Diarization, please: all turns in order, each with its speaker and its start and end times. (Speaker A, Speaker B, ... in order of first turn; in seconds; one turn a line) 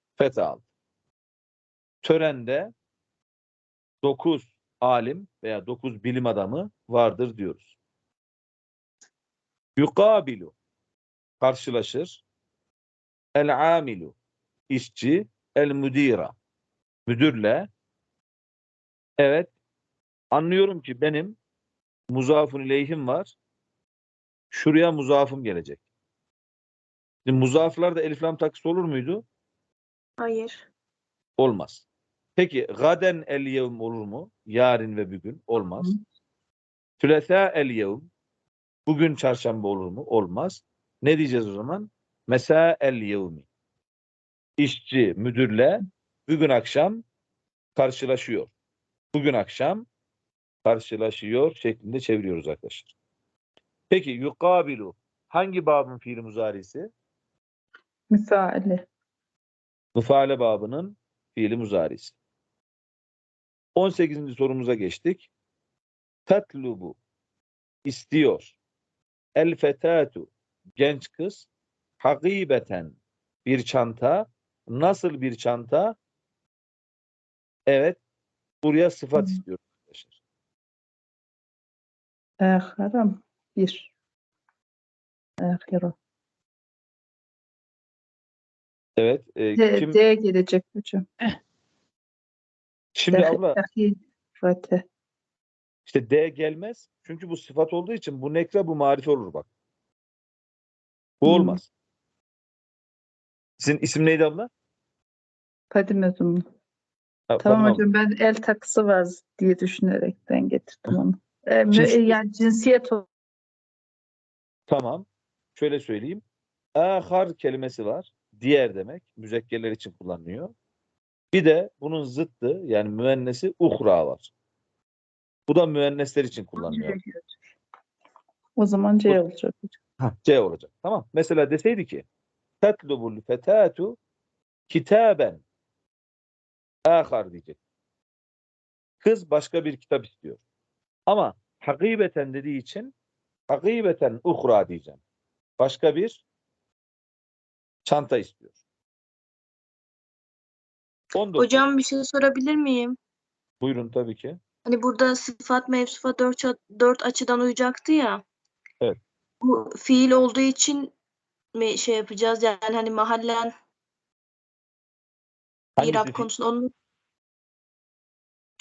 Speaker A: 0.2-0.6
Speaker A: 2.0-2.7
Speaker A: 4.0-7.7
Speaker A: 9.8-10.5
Speaker A: 11.4-12.2
Speaker A: 13.4-14.2
Speaker A: 14.7-16.4
Speaker A: 17.1-17.7
Speaker A: 19.2-19.5
Speaker A: 20.3-21.4
Speaker A: 22.1-23.3
Speaker A: 24.5-25.8
Speaker A: 27.3-29.2
Speaker B: 30.2-30.6
Speaker A: 31.4-31.9
Speaker A: 32.4-35.9
Speaker A: 37.0-38.1
Speaker A: 38.9-43.5
Speaker A: 44.6-47.0
Speaker A: 47.8-48.5
Speaker A: 49.1-49.9
Speaker A: 50.6-52.9
Speaker A: 53.9-56.9
Speaker C: 58.1-58.9
Speaker A: 60.0-62.2
Speaker A: 63.8-65.3
Speaker A: 66.3-67.0
Speaker A: 67.9-68.6
Speaker A: 69.4-71.5
Speaker A: 72.0-76.0
Speaker A: 77.7-78.0
Speaker A: 78.6-80.2
Speaker C: 82.4-83.9
Speaker C: 85.4-86.0
Speaker A: 89.0-90.0
Speaker C: 89.6-91.0
Speaker A: 93.0-93.6
Speaker C: 93.1-94.8
Speaker A: 95.8-99.5
Speaker A: 101.2-101.7
Speaker C: 101.2-101.6
Speaker A: 103.6-104.5
Speaker C: 105.7-106.4
Speaker A: 107.3-107.8
Speaker C: 107.4-113.0
Speaker A: 111.7-112.2
Speaker A: 114.7-116.2
Speaker A: 116.8-120.5
Speaker A: 121.3-124.3
Speaker A: 125.5-127.0
Speaker C: 126.6-127.4
Speaker C: 128.6-129.7
Speaker A: 130.0-132.0
Speaker A: 132.6-134.0
Speaker A: 134.7-135.4
Speaker A: 136.9-137.6
Speaker A: 139.0-140.4
Speaker A: 141.1-142.9
Speaker A: 143.5-145.0
Speaker A: 145.6-146.2
Speaker A: 147.8-148.5
Speaker A: 151.2-151.6
Speaker B: 151.4-153.0
Speaker A: 153.6-154.4
Speaker B: 154.7-158.2
Speaker B: 159.4-160.9
Speaker B: 161.6-163.5
Speaker A: 165.8-166.3
Speaker B: 165.8-166.7